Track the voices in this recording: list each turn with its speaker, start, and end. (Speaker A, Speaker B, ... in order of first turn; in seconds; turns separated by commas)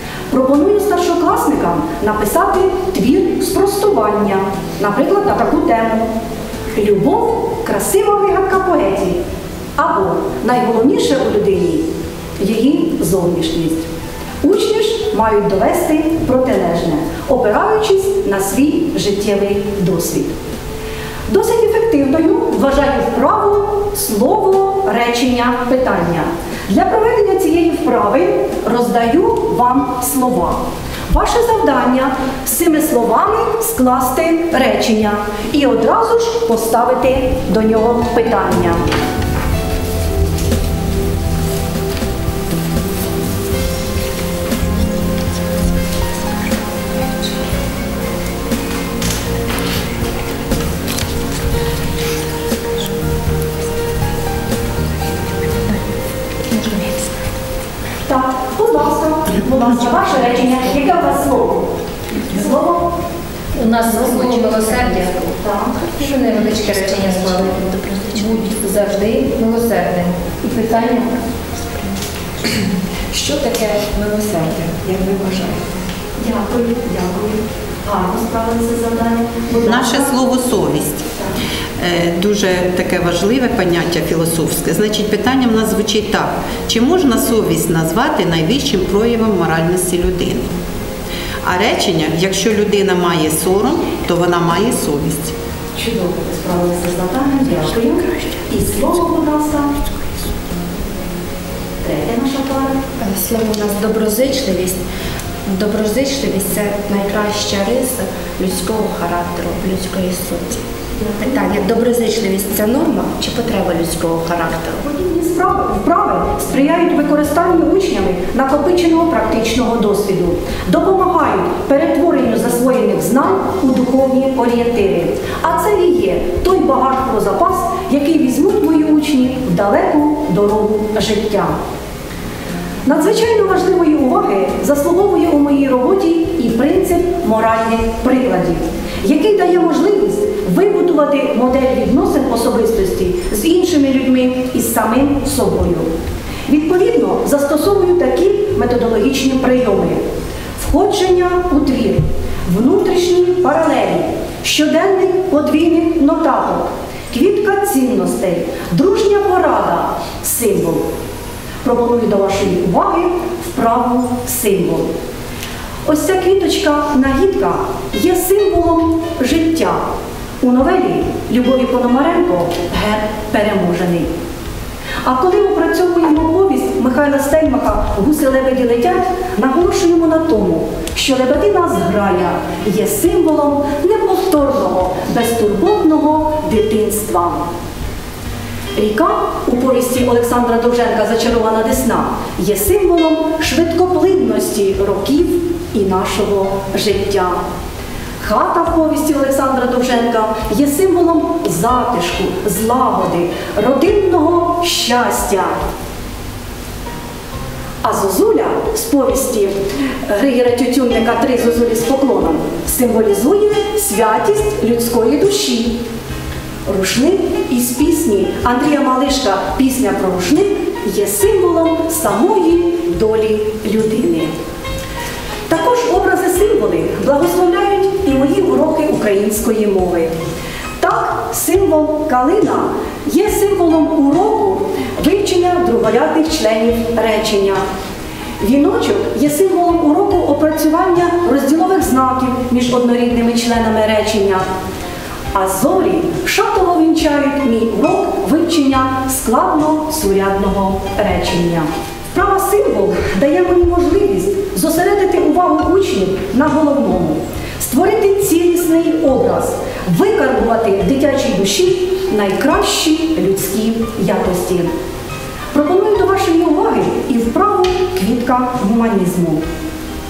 Speaker A: 0.3-6.1, Speaker A: 6.7-9.2, Speaker A: 9.8-11.9, Speaker A: 12.4-13.9, Speaker A: 14.4-20.3, Speaker A: 21.3-38.8, Speaker A: 58.0-63.0, Speaker B: 63.5-65.2, Speaker C: 63.8-65.2, Speaker A: 65.4-65.7, Speaker C: 65.8-68.4, Speaker B: 65.9-71.2, Speaker D: 73.1-75.6, Speaker A: 76.2-80.3, Speaker E: 79.6-81.1, Speaker E: 81.8-90.5, Speaker E: 91.4-95.3, Speaker A: 95.8-99.7, Speaker A: 101.8-102.8, Speaker C: 103.0-104.8, Speaker C: 105.5-110.6, Speaker C: 111.2-114.8, Speaker A: 114.8-131.5, Speaker A: 132.8-145.9, Speaker A: 146.5-150.0, Speaker A: 150.6-160.9, Speaker A: 161.6-164.9, Speaker A: 165.8-169.8, Speaker A: 170.4-174.1, Speaker A: 175.0-187.5, Speaker A: 188.8-197.4, Speaker A: 198.2-205.5, Speaker A: 207.8-215.8, Speaker A: 216.7-224.3, Speaker A: 225.5-230.1, Speaker A: 230.8-237.6, Speaker A: 238.4-244.4, Speaker A: 245.3-264.7, Speaker A: 265.5-269.4